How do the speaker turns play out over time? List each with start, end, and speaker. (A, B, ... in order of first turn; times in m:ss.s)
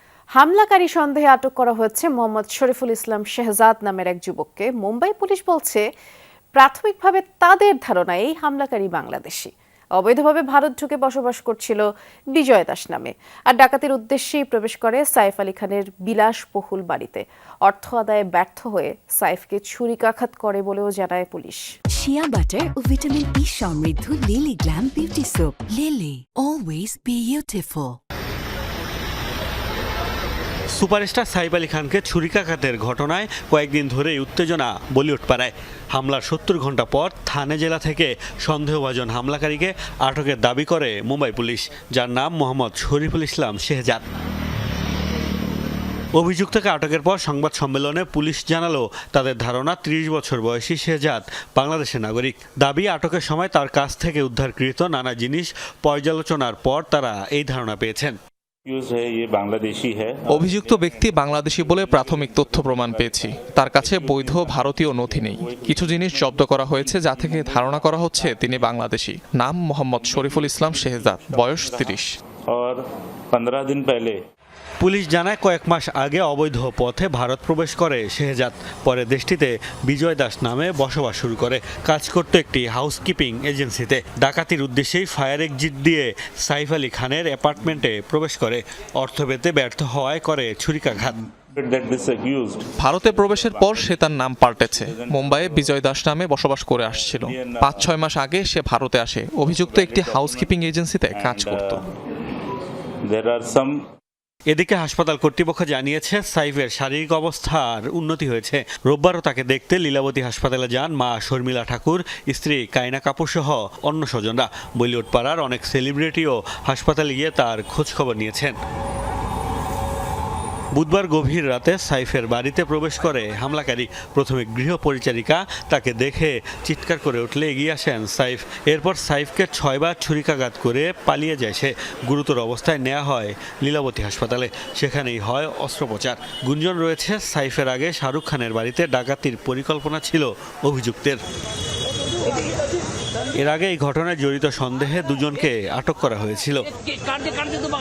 0:00.4-0:05.8 A
0:06.6-0:21.7 A
0:21.9-0:28.0 B
0:30.7-0:44.0 C
0:46.2-0:58.2 C
0:58.7-1:08.8 D
1:00.3-1:12.1 E
1:10.0-1:12.8 D
1:13.3-1:14.2 D
1:14.8-1:31.2 C
1:31.4-1:35.8 D
1:32.8-1:41.8 E
1:36.9-1:37.9 D
1:39.4-1:40.6 D
1:41.1-1:41.8 D
1:43.1-1:43.8 D
1:44.5-1:58.6 C
2:00.7-2:21.2 C
2:23.4-2:26.7 C